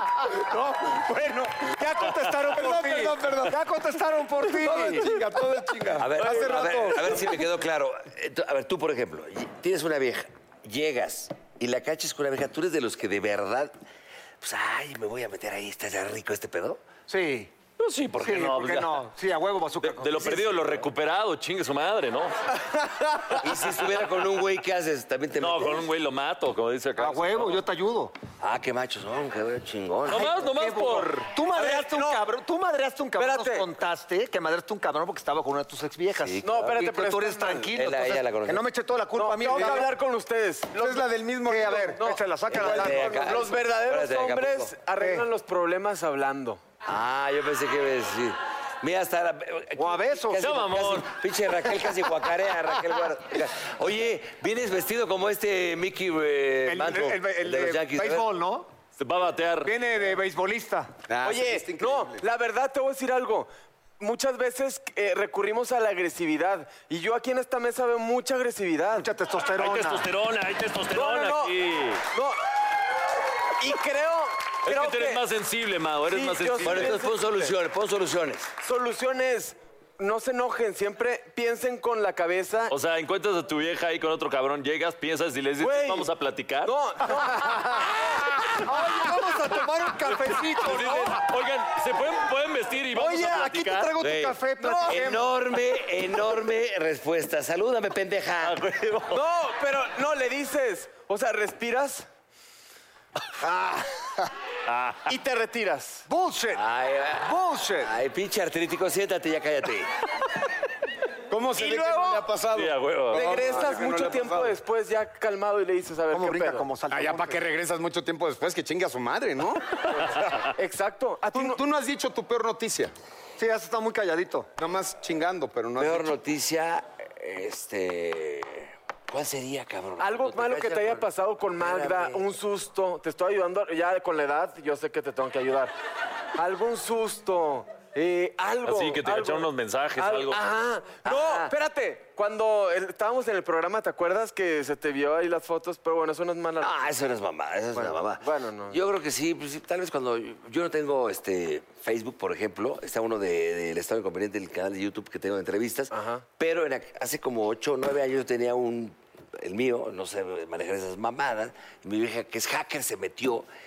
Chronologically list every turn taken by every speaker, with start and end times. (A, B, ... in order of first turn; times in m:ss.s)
0:00.3-0:03.6 A
0:01.6-0:05.2 B
0:04.5-0:07.4 A
0:06.0-0:13.7 C
0:06.2-0:06.9 D
0:14.4-0:16.8 C
0:17.1-0:17.5 B
0:17.8-0:19.1 E
0:18.2-0:20.7 B
0:19.8-0:22.4 E
0:23.4-0:25.9 C
0:25.4-0:27.6 E
0:27.0-0:28.1 B
0:28.4-0:30.3 C
0:30.1-0:31.3 E
0:30.1-0:39.9 B
0:31.4-0:32.3 D
0:33.2-0:33.7 D
0:36.1-0:36.9 C
0:36.4-0:37.7 D
0:37.7-0:38.7 C
0:39.1-0:41.0 D
0:40.8-0:42.0 A
0:41.4-0:43.4 B
0:42.0-0:46.6 D
0:42.5-0:44.8 C
0:42.5-0:43.2 A
0:45.0-0:45.3 B
0:46.9-0:58.3 C
0:49.8-0:50.5 B
0:50.4-0:51.1 E
0:56.6-0:58.7 B
0:59.0-0:59.7 E
0:59.6-1:00.9 B
1:01.1-1:02.2 A
1:01.2-1:09.1 D
1:08.9-1:10.1 B
1:09.6-1:12.0 E
1:10.9-1:11.5 D
1:13.6-1:15.2 D
1:14.6-1:17.0 E
1:16.1-1:17.5 D
1:16.6-1:18.5 C
1:18.6-1:22.7 D
1:22.7-1:27.2 E
1:25.6-1:26.1 D
1:26.6-1:28.3 D
1:27.8-1:31.2 B
1:30.2-1:31.2 D
1:30.5-1:33.9 E
1:32.9-1:35.4 B
1:34.0-1:38.6 C
1:34.6-1:35.0 D
1:38.4-1:39.2 E
1:39.1-1:42.1 D
1:43.4-1:43.8 B
1:44.7-1:45.2 E
1:45.0-1:46.0 D
1:46.1-1:46.6 B
1:46.5-1:49.9 C
1:47.2-1:47.9 B
1:51.3-1:54.6 A
1:51.6-1:52.3 D
1:52.5-1:53.5 E
1:53.1-1:56.7 D
1:56.1-1:57.4 B
1:56.9-1:59.7 A
2:00.1-2:01.6 D
2:01.3-2:02.9 A
2:03.4-2:04.5 B
2:04.6-2:06.1 A
2:05.8-2:11.0 C
2:10.0-2:15.7 D
2:11.6-2:12.2 C
2:16.4-2:26.8 D
2:18.6-2:20.4 E
2:21.0-2:21.5 C
2:26.6-2:43.5 C
2:27.7-2:28.8 D
2:35.9-2:36.2 D